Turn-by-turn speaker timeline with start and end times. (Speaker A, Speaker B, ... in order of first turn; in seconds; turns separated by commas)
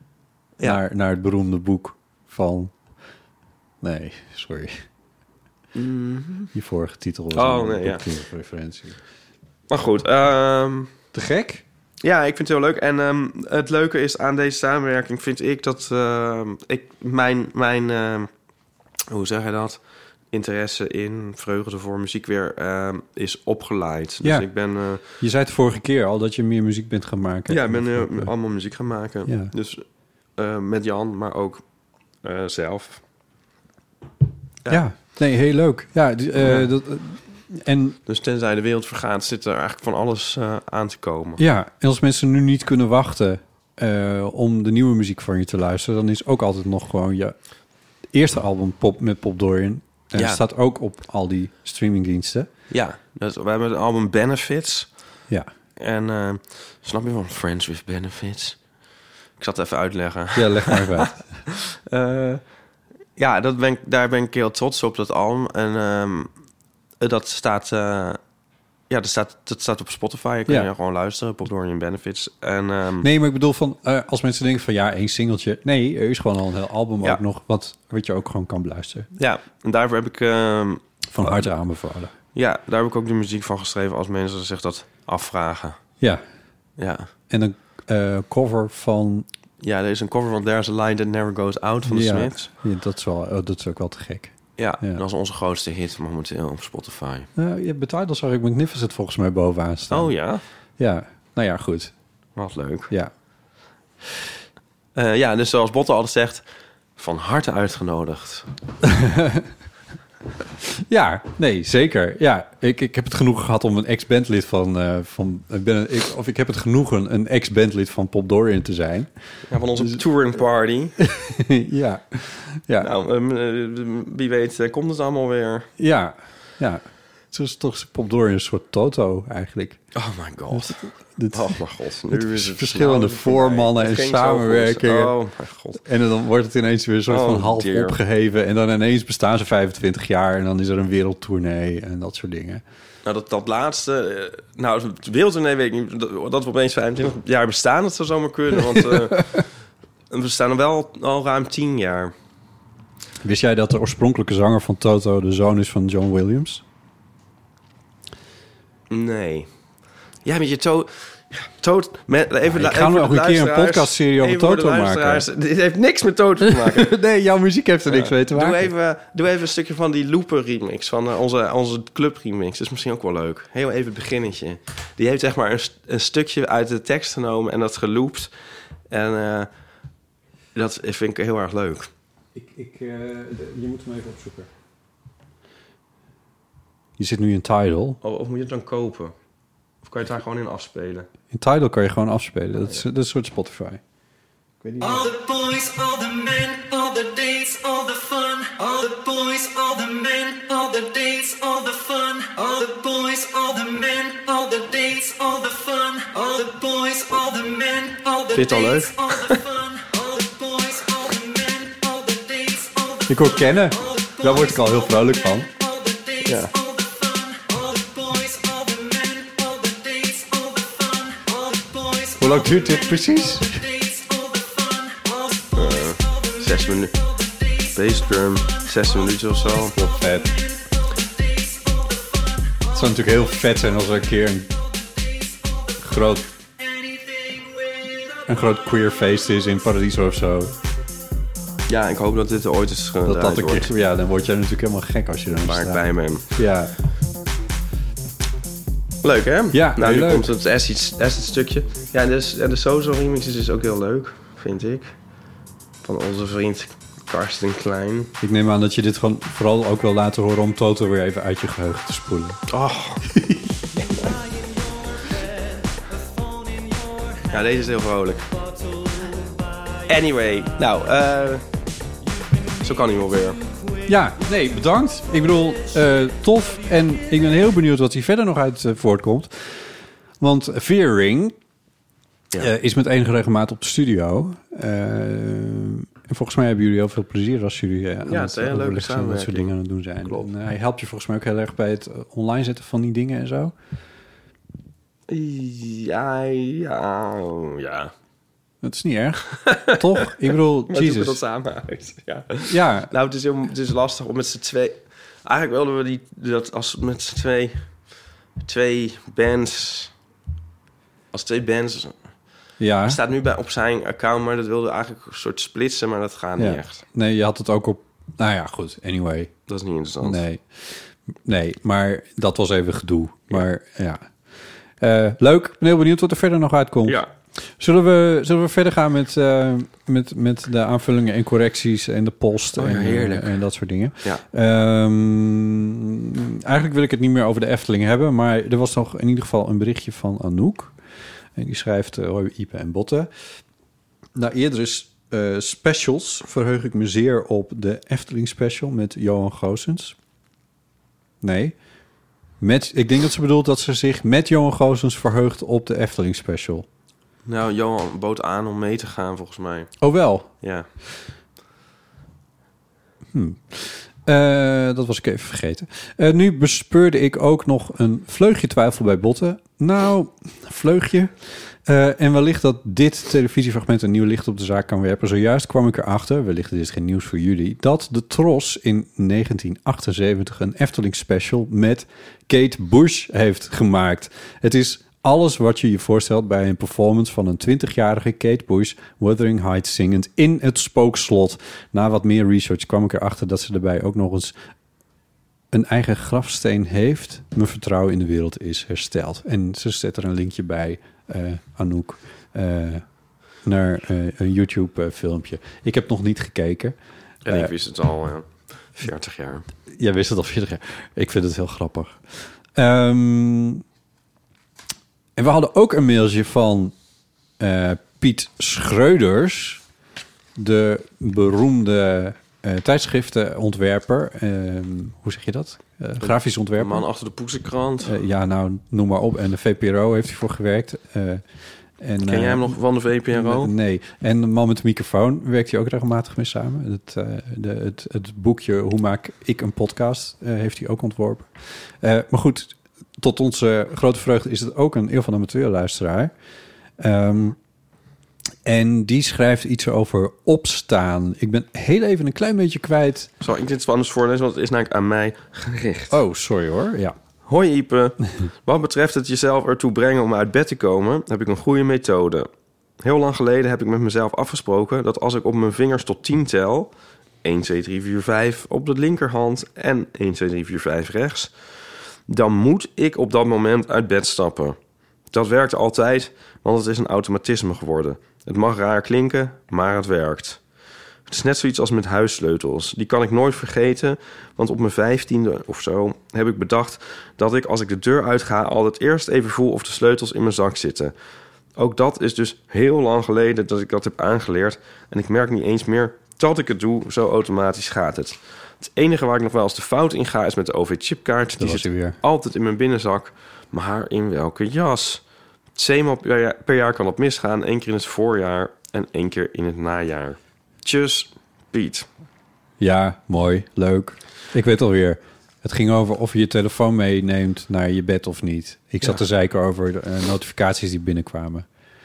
Speaker A: 0.6-2.7, Speaker A: 3.8-4.8, Speaker B: 5.7-6.5, Speaker A: 6.5-9.0, Speaker B: 7.3-8.1, Speaker B: 9.7-10.9, Speaker A: 11.1-11.6, Speaker B: 12.0-18.3, Speaker B: 19.1-25.0, Speaker A: 24.2-24.5, Speaker A: 25.0-28.3, Speaker B: 27.5-29.8, Speaker A: 29.2-29.5, Speaker B: 30.4-31.6, Speaker B: 32.2-33.0, Speaker A: 34.7-38.0, Speaker B: 36.4-36.7, Speaker B: 38.1-41.4, Speaker A: 41.4-47.4, Speaker A: 48.1-52.5, Speaker B: 50.1-50.4, Speaker B: 52.7-54.9, Speaker B: 55.8-58.6, Speaker B: 59.4-62.4, Speaker A: 60.3-61.3, Speaker B: 63.1-66.3, Speaker B: 67.0-68.2, Speaker B: 68.9-73.1, Speaker A: 73.0-79.1, Speaker B: 79.2-81.5, Speaker A: 81.1-82.1, Speaker B: 82.3-85.8, Speaker B: 86.8-87.1, Speaker A: 87.3-89.3, Speaker B: 89.6-92.5, Speaker A: 91.8-95.0, Speaker B: 94.6-97.3, Speaker A: 97.3-100.1, Speaker B: 99.9-100.4, Speaker A: 100.8-101.9, Speaker B: 102.3-102.9, Speaker B: 104.9-106.4, Speaker B: 107.0-108.5, Speaker A: 108.8-109.5, Speaker A: 110.6-119.1, Speaker B: 119.5-120.9, Speaker A: 121.0-122.9, Speaker B: 122.8-125.7, Speaker A: 125.8-129.8, Speaker B: 129.9-135.8, Speaker A: 130.5-135.2, Speaker A: 135.8-142.6, Speaker B: 137.1-138.0, Speaker B: 143.0-149.4, Speaker A: 148.8-149.4, Speaker B: 150.1-152.1, Speaker A: 153.2-156.6, Speaker B: 158.9-159.5, Speaker B: 160.2-166.9, Speaker A: 162.5-165.2, Speaker A: 166.4-168.7, Speaker B: 167.9-178.3, Speaker B: 178.9-179.5, Speaker B: 180.5-181.9, Speaker A: 182.3-184.5, Speaker A: 187.0-188.0, Speaker B: 188.0-189.1, Speaker B: 189.8-191.1, Speaker A: 191.3-193.8, Speaker A: 194.6-195.1, Speaker C: 194.8-226.4, Speaker B: 208.3-209.4, Speaker A: 213.1-215.5, Speaker B: 216.2-216.5, Speaker A: 222.2-223.6, Speaker B: 225.5-226.9, Speaker B: 227.7-229.7, Speaker A: 229.7-230.3, Speaker C: 230.1-232.6, Speaker A: 232.7-234.5, Speaker C: 235.0-235.7, Speaker A: 235.8-236.3, Speaker C: 236.8-237.7, Speaker A: 238.3-240.5, Speaker B: 241.7-243.7, Speaker A: 243.0-246.7, Speaker B: 245.4-246.3, Speaker B: 249.0-254.9, Speaker A: 249.5-250.3, Speaker B: 255.8-258.1, Speaker A: 258.2-262.4, Speaker B: 262.5-263.0, Speaker A: 263.1-263.4, Speaker C: 264.0-267.3, Speaker B: 267.3-268.2, Speaker C: 268.3-269.8, Speaker B: 269.9-271.4, Speaker C: 272.1-272.6, Speaker B: 272.6-273.4, Speaker C: 273.4-273.9, Speaker A: 273.9-279.7, Speaker A: 280.2-281.4, Speaker A: 282.4-293.5, Speaker B: 288.0-290.3, Speaker B: 295.1-297.9, Speaker A: 298.6-301.2, Speaker B: 299.4-307.6, Speaker A: 302.5-302.9, Speaker B: 308.4-309.9, Speaker B: 311.1-312.0, Speaker A: 312.6-313.0, Speaker B: 312.8-316.8, Speaker A: 316.4-319.3, Speaker B: 319.5-320.2, Speaker A: 320.0-324.1, Speaker A: 324.8-340.7, Speaker B: 332.6-333.4, Speaker A: 341.3-343.1, Speaker A: 344.1-349.9, Speaker A: 351.2-351.6, Speaker A: 352.4-356.6, Speaker B: 357.2-359.7, Speaker A: 359.8-360.3, Speaker B: 360.4-360.7, Speaker A: 363.1-394.3, Speaker A: 395.5-402.8, Speaker A: 403.4-407.5, Speaker B: 407.2-409.4, Speaker A: 409.7-413.6, Speaker A: 415.2-416.7, Speaker A: 417.4-419.6, Speaker A: 420.4-426.8, Speaker B: 426.0-427.9, Speaker A: 427.8-431.2, Speaker A: 431.8-432.6, Speaker B: 432.0-433.5, Speaker A: 433.1-446.1, Speaker A: 446.8-447.4, Speaker A: 448.4-453.1, Speaker B: 453.2-455.9, Speaker A: 455.9-456.9, Speaker B: 457.2-462.3, Speaker B: 462.8-466.7, Speaker B: 467.2-471.3, Speaker B: 472.1-474.6, Speaker B: 475.1-480.4, Speaker B: 481.1-490.9, Speaker B: 491.6-505.0, Speaker A: 501.4-502.0, Speaker B: 505.5-511.9, Speaker A: 512.6-521.5